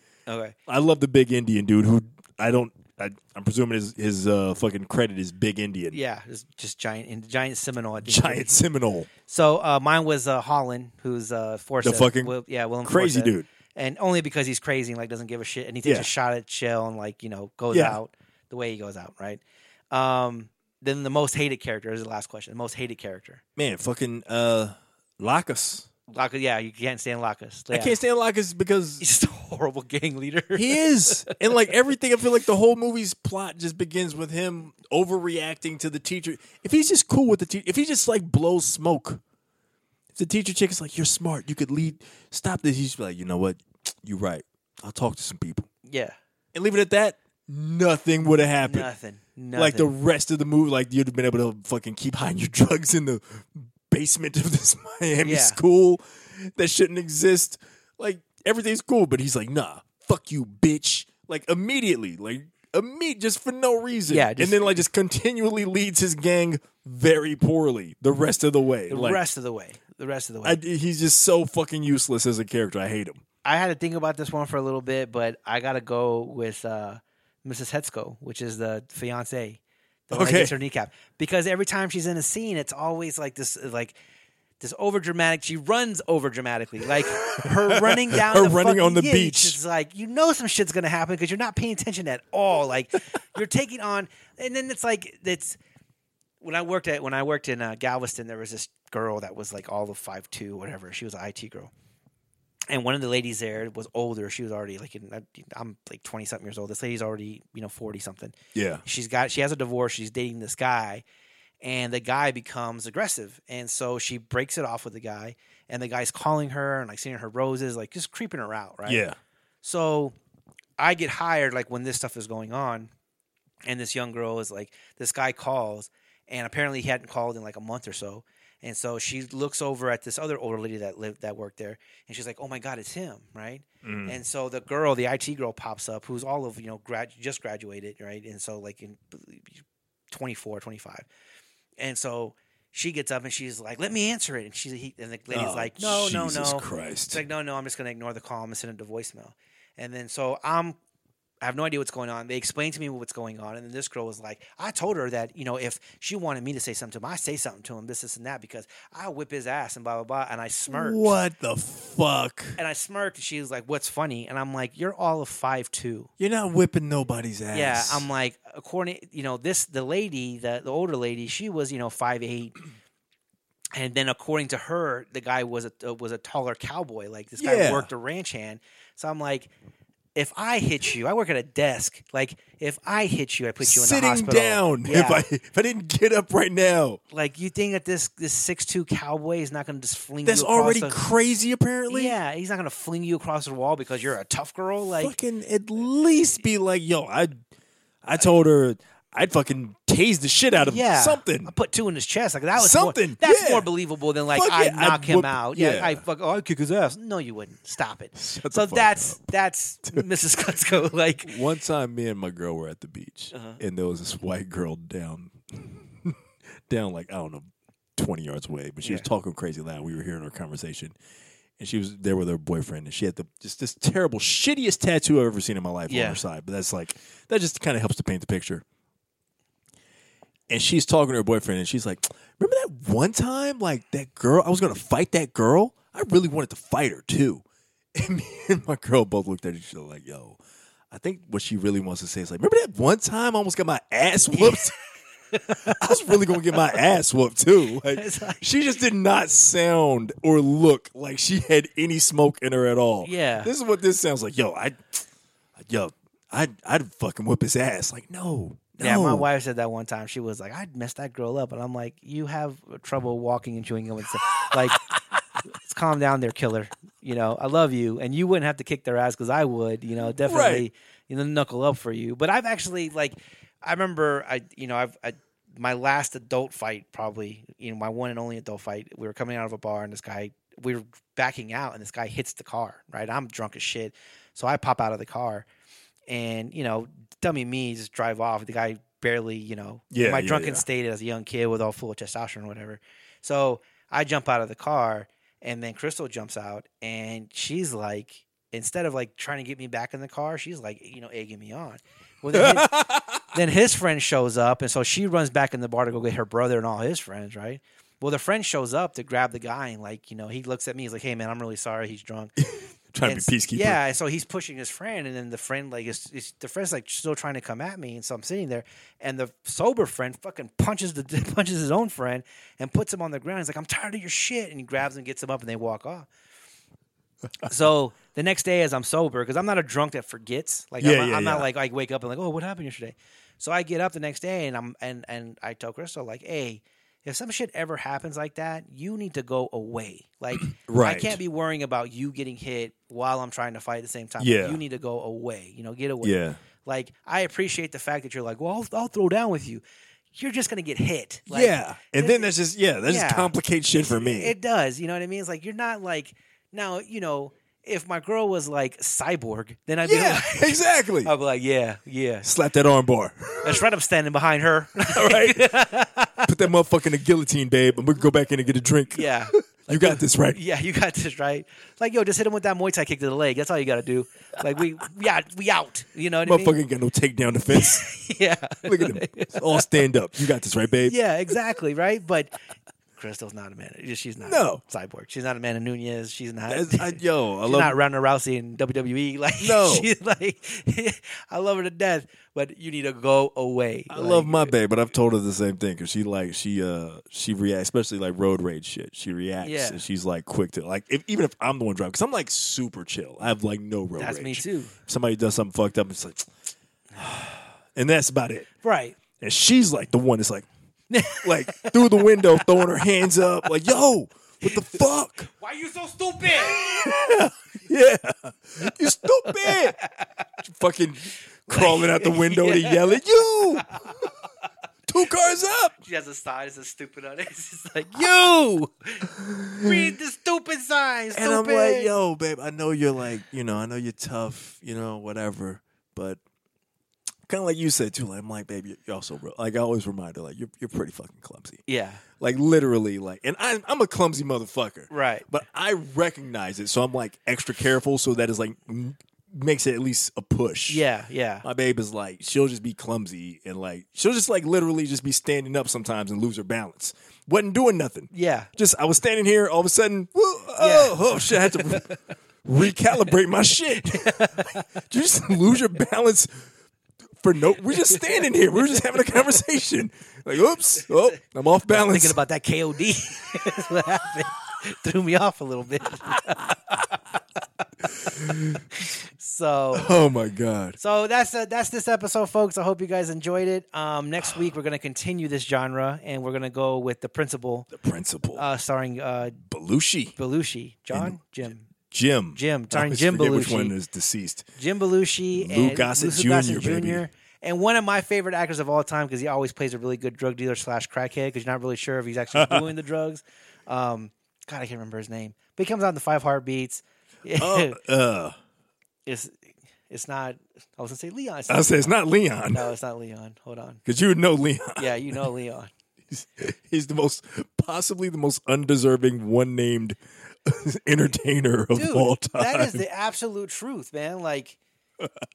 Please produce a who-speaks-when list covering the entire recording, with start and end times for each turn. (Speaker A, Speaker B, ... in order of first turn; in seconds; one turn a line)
Speaker A: 0.3-0.5
Speaker B: 0.7-6.0
Speaker A: 5.9-8.6
Speaker B: 8.0-9.1
Speaker A: 9.3-23.4
Speaker B: 11.8-12.3
Speaker B: 12.8-13.5
Speaker B: 17.7-18.0
Speaker B: 23.6-25.9
Speaker A: 26.1-28.0
Speaker B: 27.7-29.0
Speaker A: 29.0-31.6
Speaker B: 30.5-39.2
Speaker B: 40.1-45.7
Speaker A: 45.8-46.2
Speaker B: 46.5-48.9
Speaker A: 48.6-49.9
Speaker B: 49.5-69.2
Speaker A: 55.2-55.6
Speaker A: 64.1-64.8
Speaker A: 68.9-70.6
Speaker B: 70.4-73.2
Speaker A: 73.4-83.9
Speaker B: 80.1-80.5
Speaker A: 84.6-95.6
Speaker B: 87.2-89.6
Speaker A: 96.4-101.7
Speaker A: 102.7-111.0
Speaker B: 108.5-108.8
Speaker A: 111.6-119.0
Speaker B: 118.8-119.2
Speaker A: 119.6-120.1
Speaker A: 120.8-122.9
Speaker A: 123.6-141.1
Speaker B: 133.8-134.1
Speaker A: 141.8-150.8
Speaker B: 145.3-147.2
Speaker A: 151.4-161.1
Speaker B: 160.7-162.6
Speaker A: 162.6-166.1
Speaker B: 166.2-168.1
Speaker A: 167.5-172.6
Speaker A: 173.7-179.5
Speaker B: 177.4-177.9
Speaker A: 180.1-185.2
Speaker B: 183.6-187.0
Speaker A: 187.1-191.0
Speaker B: 190.2-192.2
Speaker A: 191.9-195.1
Speaker B: 195.0-197.3
Speaker B: 198.0-201.5
Speaker A: 200.6-211.4
Speaker B: 202.6-203.7
Speaker B: 204.3-206.0
Speaker B: 208.1-209.2
Speaker B: 211.2-220.9
Speaker A: 213.3-213.6
Speaker B: 221.6-228.6
Speaker A: 225.9-226.2
Speaker B: 230.5-237.4
Speaker B: 237.9-240.4
Speaker B: 240.9-244.7
Speaker A: 244.3-244.7
Speaker A: 245.3-246.6
Speaker B: 245.6-255.0
Speaker A: 247.8-248.4
Speaker A: 253.0-253.5
Speaker B: 255.6-259.3
Speaker A: 258.8-264.8
Speaker A: 265.5-285.4
Speaker B: 270.2-270.6
Speaker A: 286.1-312.3
Speaker B: 289.9-290.6
Speaker B: 302.3-303.2
Speaker B: 312.4-313.8
Speaker A: 313.0-326.1
Speaker A: 327.4-349.6
Speaker B: 330.8-331.5
Speaker B: 340.6-341.2
Speaker B: 344.2-344.6
Speaker B: 346.0-346.4
Speaker A: 350.1-352.3
Speaker B: 351.3-354.3
Speaker A: 352.9-362.3
Speaker B: 359.8-361.1
Speaker B: 362.2-363.7
Speaker A: 363.4-366.3
Speaker B: 364.9-365.6
Speaker B: 366.2-370.4
Speaker A: 368.9-376.6
Speaker B: 376.2-377.9
Speaker A: 377.5-379.7
Speaker B: 378.6-380.9
Speaker A: 380.8-382.3
Speaker A: 383.0-394.5
Speaker B: 384.2-384.6
Speaker B: 386.5-387.7
Speaker B: 389.4-389.9
Speaker B: 393.9-406.3
Speaker A: 399.4-399.8
Speaker A: 404.0-404.7
Speaker B: 407.7-408.5
Speaker A: 408.6-409.0
Speaker B: 409.1-410.4
Speaker A: 410.9-412.6
Speaker B: 411.1-415.3
Speaker A: 414.4-414.8
Speaker A: 415.4-416.8
Speaker B: 416.3-419.8
Speaker A: 419.2-420.1
Speaker B: 420.4-424.1
Speaker A: 421.5-424.1
Speaker B: 424.9-425.7
Speaker A: 425.8-431.9
Speaker B: 429.1-429.9
Speaker B: 431.1-436.2
Speaker B: 437.3-441.6
Speaker A: 441.7-442.0
Speaker B: 442.2-450.8
Speaker A: 444.9-445.2
Speaker A: 450.7-451.4
Speaker B: 451.4-466.4
Speaker A: 458.1-458.5
Speaker A: 460.6-461.9
Speaker A: 463.8-464.7
Speaker B: 467.2-472.2
Speaker A: 471.7-476.9
Speaker B: 477.9-478.8
Speaker A: 478.8-479.9
Speaker B: 479.7-480.8
Speaker A: 480.8-487.7
Speaker B: 487.7-488.4
Speaker A: 488.3-489.4
Speaker B: 489.4-490.1
Speaker A: 490.2-491.7
Speaker B: 491.9-494.4
Speaker A: 492.3-493.7
Speaker A: 494.6-507.8
Speaker B: 495.4-497.0
Speaker B: 502.3-502.7
Speaker B: 507.4-508.3
Speaker A: 509.1-509.4
Speaker A: 509.9-512.0
Speaker B: 511.5-512.7
Speaker A: 512.5-513.8
Speaker B: 513.9-515.2
Speaker A: 514.8-515.7
Speaker B: 516.1-522.8
Speaker A: 521.7-524.6